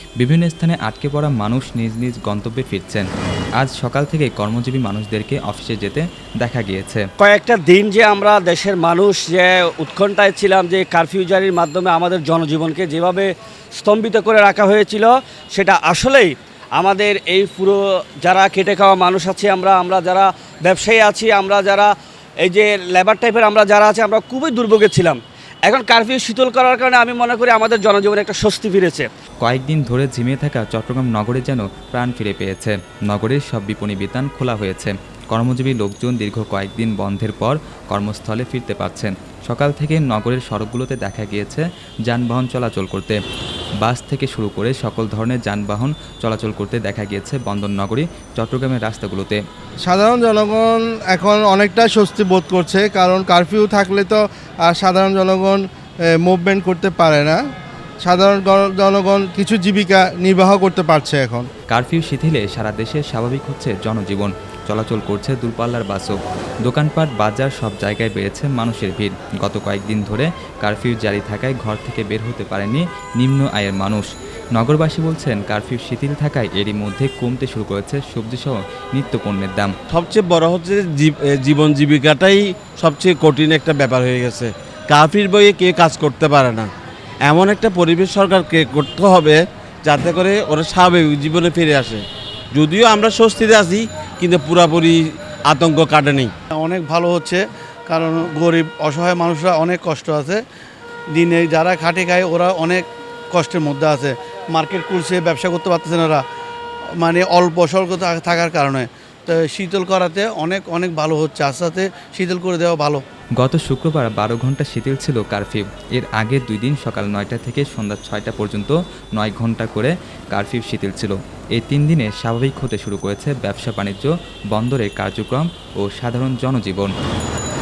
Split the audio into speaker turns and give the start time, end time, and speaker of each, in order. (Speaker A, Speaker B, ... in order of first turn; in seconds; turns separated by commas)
Speaker A: 0.2-3.1, Speaker A: 3.6-7.0, Speaker B: 7.2-29.1, Speaker A: 29.4-43.2, Speaker A: 43.8-49.4, Speaker C: 49.8-55.6, Speaker C: 56.2-57.4, Speaker C: 58.0-61.5, Speaker A: 61.7-66.1, Speaker A: 66.6-79.7, Speaker D: 79.9-86.7, Speaker D: 87.2-96.3, Speaker E: 96.5-100.4, Speaker E: 101.1-106.2, Speaker E: 107.0-113.0, Speaker A: 113.4-126.9